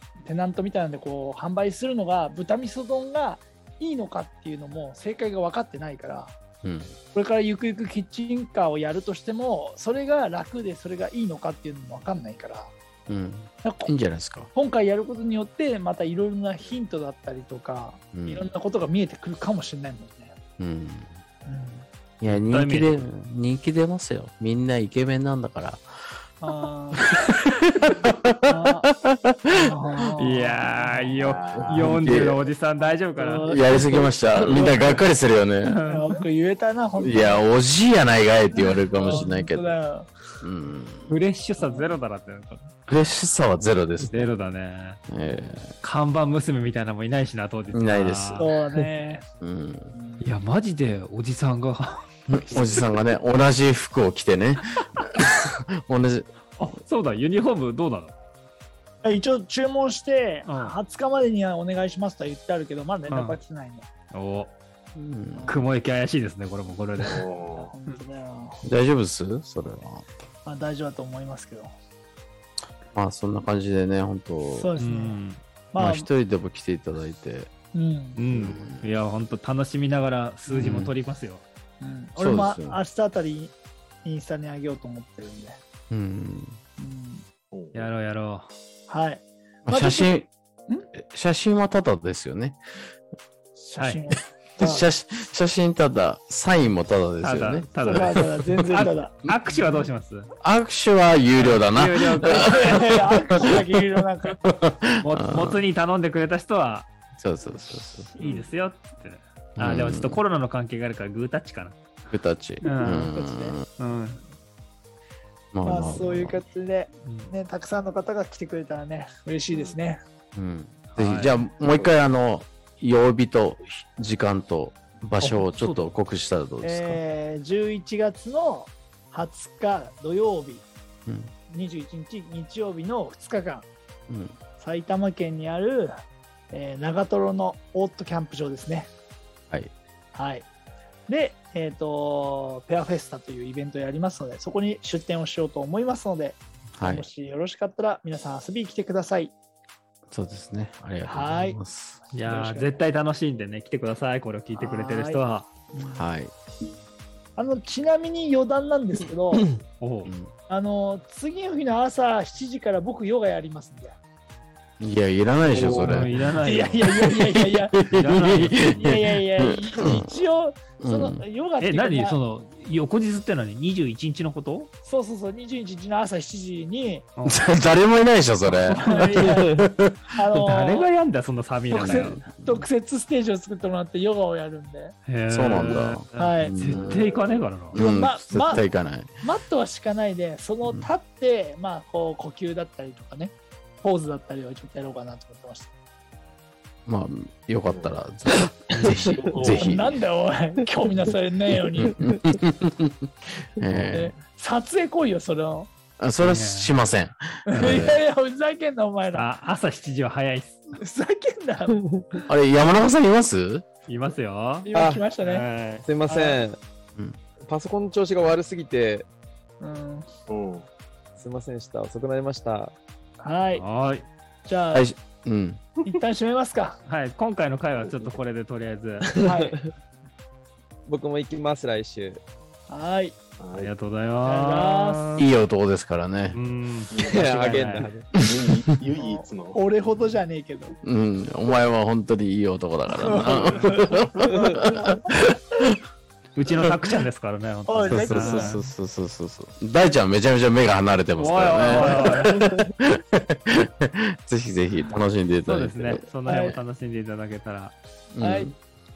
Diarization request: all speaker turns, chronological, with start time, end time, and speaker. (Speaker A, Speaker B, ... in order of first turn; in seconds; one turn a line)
Speaker A: 0.2-6.3
Speaker B: 6.6-6.9
Speaker A: 7.1-12.7
Speaker B: 13.1-14.5
Speaker A: 13.6-13.9
Speaker A: 14.5-20.3
Speaker B: 18.1-18.4
Speaker B: 20.6-21.2
Speaker A: 21.4-21.9
Speaker B: 22.2-25.9
Speaker C: 22.4-22.9
Speaker A: 26.4-27.0
Speaker B: 27.0-29.6
Speaker A: 28.4-28.9
Speaker A: 29.5-31.7
Speaker C: 30.2-33.6
Speaker D: 31.2-31.9
Speaker B: 31.6-32.5
Speaker A: 32.8-35.0
Speaker B: 33.4-35.8
Speaker C: 35.6-36.2
Speaker A: 35.9-37.5
Speaker B: 37.0-39.7
Speaker A: 38.5-40.1
Speaker B: 40.4-41.1
Speaker C: 41.1-42.7
Speaker A: 41.6-42.0
Speaker B: 42.9-44.3
Speaker C: 44.1-45.0
Speaker B: 45.1-45.7
Speaker C: 45.8-48.5
Speaker B: 47.7-48.5
Speaker A: 48.4-49.2
Speaker B: 49.4-49.9
Speaker A: 49.9-50.3
Speaker C: 50.2-52.9
Speaker B: 52.3-56.3
Speaker C: 56.6-58.1
Speaker A: 59.0-63.9
Speaker C: 60.4-60.8
Speaker C: 63.1-63.4
Speaker C: 64.1-64.5
Speaker B: 64.9-65.5
Speaker A: 65.3-65.7
Speaker C: 65.5-67.2
Speaker D: 67.0-67.7
Speaker A: 67.5-68.6
Speaker B: 68.6-70.0
Speaker A: 70.4-71.7
Speaker B: 72.9-74.7
Speaker A: 74.5-75.2
Speaker C: 74.8-75.4
Speaker A: 75.7-76.1
Speaker B: 75.8-77.5
Speaker A: 77.7-78.2
Speaker C: 78.2-81.4
Speaker B: 78.3-78.9
Speaker B: 80.5-80.9
Speaker A: 81.8-83.5
Speaker B: 82.2-82.8
Speaker A: 84.0-85.6
Speaker B: 85.9-86.6
Speaker A: 86.8-87.2
Speaker D: 87.5-87.9
Speaker C: 87.7-88.5
Speaker A: 88.9-90.9
Speaker B: 89.7-90.3
Speaker B: 90.9-92.6
Speaker A: 93.6-94.9
Speaker B: 94.6-98.2
Speaker C: 97.2-100.3
Speaker A: 97.9-99.7
Speaker B: 100.4-103.2
Speaker C: 101.4-102.8
Speaker A: 102.2-104.4
Speaker B: 104.5-105.6
Speaker C: 105.0-106.9
Speaker B: 107.2-108.1
Speaker C: 107.7-111.8
Speaker D: 108.2-108.5
Speaker B: 109.6-110.2
Speaker B: 112.1-113.6
Speaker C: 112.6-113.1
Speaker A: 112.6-113.6
Speaker C: 113.8-114.2
Speaker B: 115.5-116.4
Speaker A: 115.6-120.0
Speaker C: 117.0-117.3
Speaker D: 119.5-119.8
Speaker B: 120.3-127.0
Speaker C: 120.9-121.4
Speaker C: 125.2-125.9
Speaker A: 126.6-130.7
Speaker B: 131.1-131.3
Speaker A: 131.5-133.7
Speaker B: 134.1-134.3
Speaker A: 134.6-135.9
Speaker A: 136.5-138.9
Speaker A: 140.1-140.5
Speaker A: 141.1-149.3
Speaker B: 146.8-147.1
Speaker B: 150.1-152.0
Speaker A: 151.0-151.6
Speaker C: 152.1-155.5
Speaker A: 152.2-152.8
Speaker A: 154.5-155.2
Speaker A: 155.7-156.0
Speaker B: 155.8-156.3
Speaker A: 157.3-159.5
Speaker C: 159.8-160.1
Speaker B: 160.1-160.3
Speaker A: 160.5-163.9
Speaker B: 164.8-170.1
Speaker C: 165.4-167.1
Speaker A: 165.6-167.9
Speaker C: 167.8-169.0
Speaker A: 168.5-172.2
Speaker B: 170.8-171.2
Speaker C: 171.6-174.7
Speaker A: 174.8-177.1
Speaker C: 177.2-177.4
Speaker B: 177.2-180.0
Speaker A: 178.6-180.9
Speaker C: 178.8-179.1
Speaker C: 180.4-182.2
Speaker A: 181.7-184.9
Speaker B: 181.7-182.7
Speaker C: 185.1-187.8
Speaker B: 185.3-186.9
Speaker A: 186.2-186.6
Speaker D: 186.7-187.4
Speaker B: 187.7-189.1
Speaker A: 187.8-188.7
Speaker A: 189.2-195.7
Speaker B: 196.8-199.9
Speaker D: 197.7-198.0
Speaker C: 198.7-199.1
Speaker D: 199.1-199.7
Speaker A: 199.4-202.0
Speaker B: 201.8-203.1
Speaker B: 203.6-204.1
Speaker A: 203.9-205.7
Speaker B: 206.0-208.0
Speaker C: 206.2-206.8
Speaker C: 207.5-207.8
Speaker A: 207.5-209.3
Speaker C: 209.1-210.8
Speaker A: 210.8-211.8
Speaker B: 212.3-213.6
Speaker C: 213.9-214.7
Speaker A: 214.6-215.4
Speaker E: 214.7-215.1
Speaker C: 215.2-215.8
Speaker E: 215.8-216.6
Speaker A: 216.1-216.4
Speaker E: 217.4-219.1
Speaker A: 219.6-220.1
Speaker D: 220.3-220.7
Speaker E: 221.2-222.7
Speaker A: 223.2-223.6
Speaker C: 223.5-224.1
Speaker A: 224.4-224.9
Speaker B: 224.7-225.6
Speaker A: 225.8-226.8
Speaker C: 226.8-229.1
Speaker D: 227.8-228.2
Speaker A: 229.2-229.6
Speaker E: 230.9-232.2
Speaker A: 232.7-233.2
Speaker D: 233.4-233.7
Speaker C: 233.5-235.3
Speaker A: 234.2-235.2
Speaker B: 235.2-236.4
Speaker C: 236.3-237.9
Speaker D: 236.9-237.6
Speaker E: 236.9-238.2
Speaker D: 238.1-239.6
Speaker A: 239.0-240.8
Speaker B: 240.8-245.4
Speaker A: 243.0-245.1
Speaker C: 246.3-248.7
Speaker A: 247.7-248.6
Speaker B: 247.9-256.0
Speaker C: 251.2-252.3
Speaker C: 255.4-257.7
Speaker A: 256.2-256.6
Speaker B: 258.1-258.5
Speaker A: 258.2-258.5